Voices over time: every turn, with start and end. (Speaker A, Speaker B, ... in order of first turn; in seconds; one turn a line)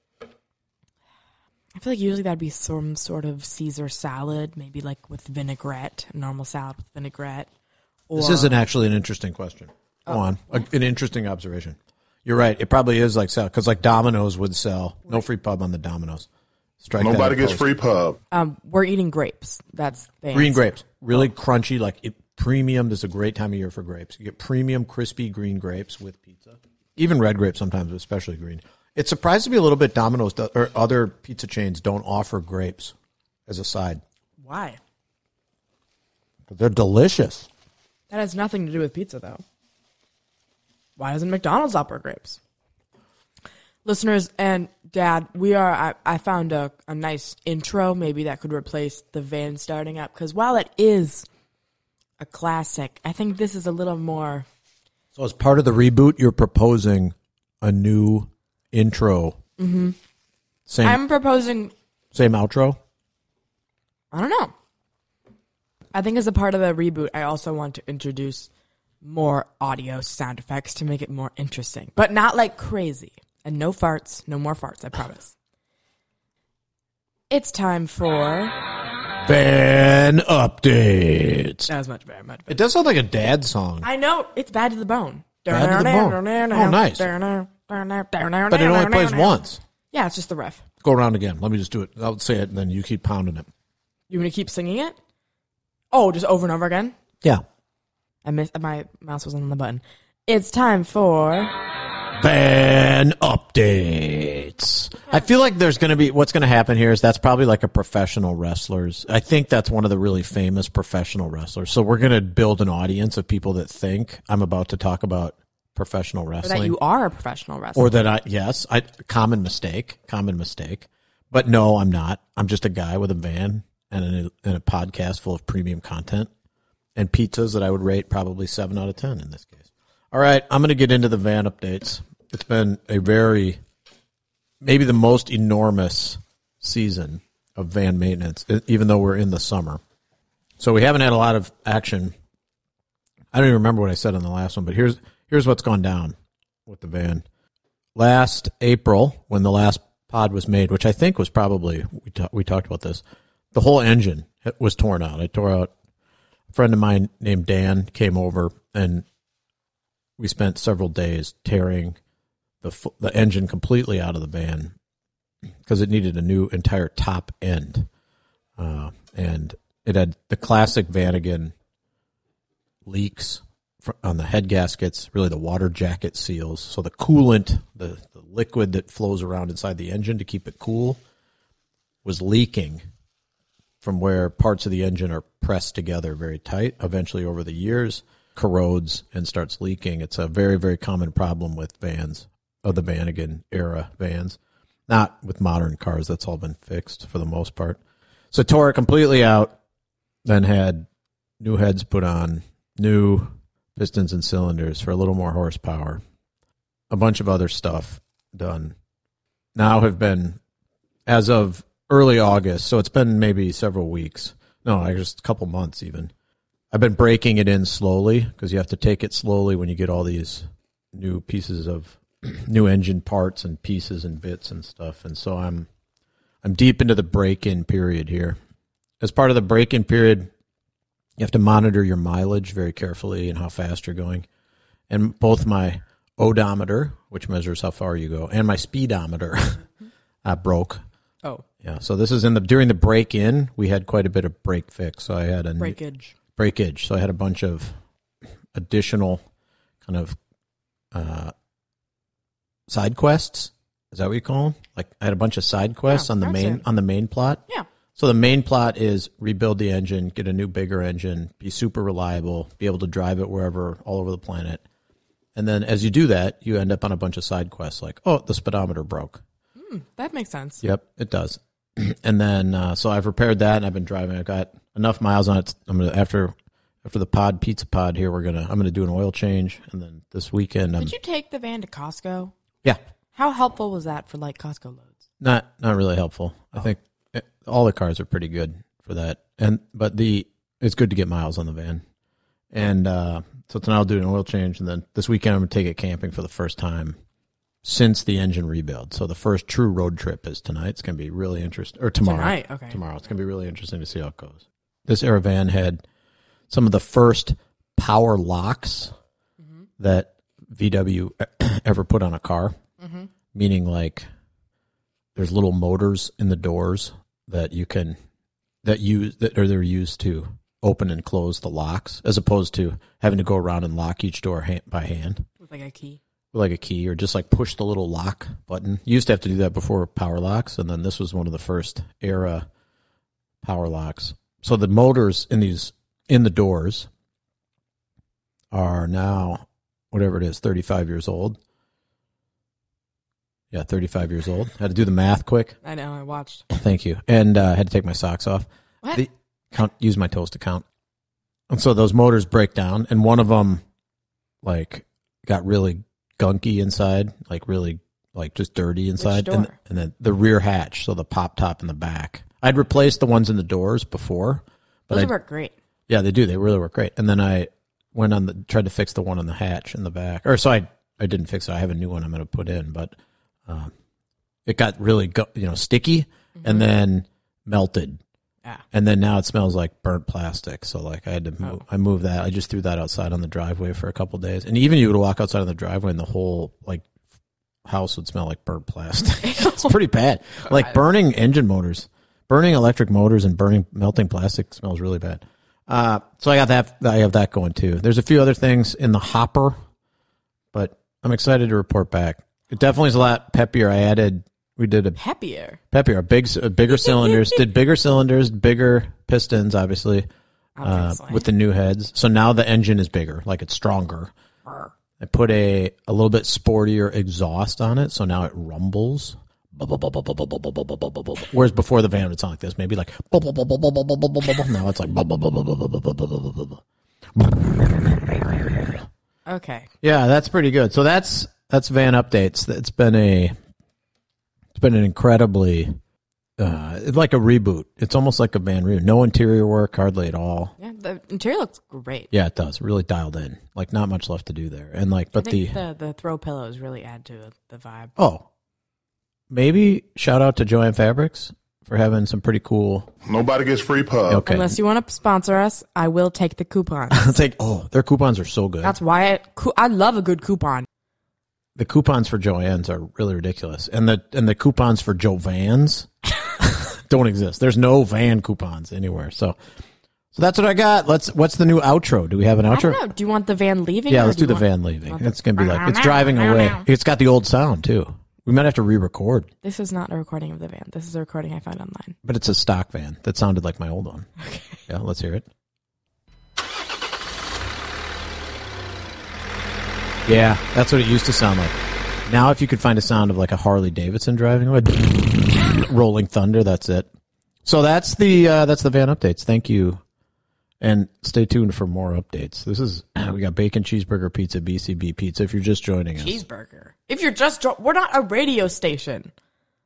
Speaker A: 1.8-7.5
Speaker A: 8.1-8.6
Speaker B: 8.1-16.3
Speaker A: 10.1-10.6
Speaker B: 16.8-17.7
Speaker C: 17.0-18.2
Speaker A: 18.3-20.7
Speaker B: 20.3-32.9
Speaker B: 33.5-34.0
Speaker A: 34.4-34.8
Speaker B: 36.5-37.5
Speaker A: 38.1-39.4
Speaker A: 41.0-42.4
Speaker A: 43.9-51.3
Speaker A: 52.2-54.5
Speaker B: 55.1-59.4
Speaker A: 59.6-60.0
Speaker B: 60.7-61.0
Speaker A: 60.8-61.7
Speaker B: 62.1-62.8
Speaker A: 64.1-64.5
Speaker A: 65.9-68.5
Speaker A: 69.0-75.3
Speaker A: 77.3-78.6
Speaker B: 79.2-81.7
Speaker A: 81.7-82.6
Speaker B: 82.5-83.9
Speaker A: 83.8-89.4
Speaker B: 85.5-87.1
Speaker B: 88.5-89.6
Speaker A: 89.9-90.6
Speaker B: 90.8-93.5
Speaker A: 94.1-95.0
Speaker A: 95.9-97.0
Speaker A: 98.2-101.5
Speaker B: 102.2-116.8
Speaker A: 116.4-118.0
Speaker B: 117.8-126.3
Speaker B: 127.0-133.6
Speaker B: 134.6-139.8
Speaker B: 140.6-142.1
Speaker B: 143.3-146.2
Speaker B: 146.7-147.2
Speaker B: 148.0-155.7
Speaker B: 156.5-159.1
Speaker B: 160.2-162.0
Speaker B: 162.6-164.7
Speaker B: 165.7-167.9
Speaker B: 168.6-171.5
Speaker B: 172.9-181.0
Speaker B: 182.0-182.8
Speaker B: 183.8-197.8
Speaker B: 198.3-199.6
Speaker B: 200.2-200.9
Speaker B: 201.4-206.0
Speaker B: 206.9-208.8
Speaker B: 209.6-210.4
Speaker B: 211.1-216.1
Speaker B: 216.7-225.7
Speaker B: 226.4-228.4
Speaker B: 229.0-230.3
Speaker B: 231.2-234.3
Speaker B: 234.9-239.7
Speaker B: 240.2-240.8
Speaker B: 241.6-245.8
Speaker A: 245.6-246.2
Speaker B: 246.4-247.8
Speaker B: 248.5-249.2
Speaker B: 249.8-250.2
Speaker B: 250.9-251.3
Speaker B: 252.7-257.4
Speaker A: 255.9-256.6
Speaker B: 258.0-264.6
Speaker B: 265.4-269.2
Speaker A: 269.6-270.6
Speaker B: 270.6-280.9
Speaker A: 280.8-282.3
Speaker A: 283.1-285.0
Speaker B: 285.2-291.8
Speaker B: 292.5-297.0
Speaker B: 297.6-305.8
Speaker A: 302.0-302.8
Speaker B: 306.5-308.9
Speaker B: 309.8-312.6
Speaker A: 312.8-313.1
Speaker B: 313.3-314.1
Speaker B: 315.1-318.0
Speaker B: 318.6-325.2
Speaker A: 325.4-326.0
Speaker B: 326.3-332.5
Speaker B: 333.4-336.9
Speaker B: 338.5-341.4
Speaker B: 343.5-345.6
Speaker A: 345.6-346.5
Speaker B: 346.5-350.6
Speaker B: 351.5-353.6
Speaker B: 354.4-365.1
Speaker A: 359.0-359.6
Speaker A: 364.9-365.6
Speaker B: 365.9-372.9
Speaker B: 373.5-373.7
Speaker B: 374.5-378.0
Speaker A: 376.4-376.7
Speaker B: 378.7-386.9
Speaker B: 387.6-399.6
Speaker A: 389.2-389.7
Speaker B: 400.5-405.0
Speaker A: 405.0-405.6
Speaker B: 405.7-410.1
Speaker A: 410.6-411.3
Speaker B: 410.6-414.1
Speaker B: 415.0-426.6
Speaker B: 427.1-428.8
Speaker A: 429.3-429.7
Speaker B: 429.8-433.3
Speaker B: 434.5-435.8
Speaker B: 436.4-440.5
Speaker A: 440.6-442.1
Speaker B: 442.1-445.6
Speaker A: 445.1-447.9
Speaker B: 448.0-448.3
Speaker B: 449.3-452.9
Speaker C: 453.1-454.2
Speaker B: 454.1-454.6
Speaker A: 454.3-457.1
Speaker B: 456.9-458.8
Speaker A: 458.6-460.7
Speaker B: 461.6-469.4
Speaker B: 470.1-472.8
Speaker A: 472.5-476.6
Speaker B: 473.9-479.3
Speaker A: 479.4-482.0
Speaker B: 482.0-484.1
Speaker A: 484.2-484.6
Speaker B: 484.7-485.3
Speaker B: 490.1-496.9
Speaker B: 497.4-499.8
Speaker B: 500.6-506.2
Speaker A: 506.0-509.1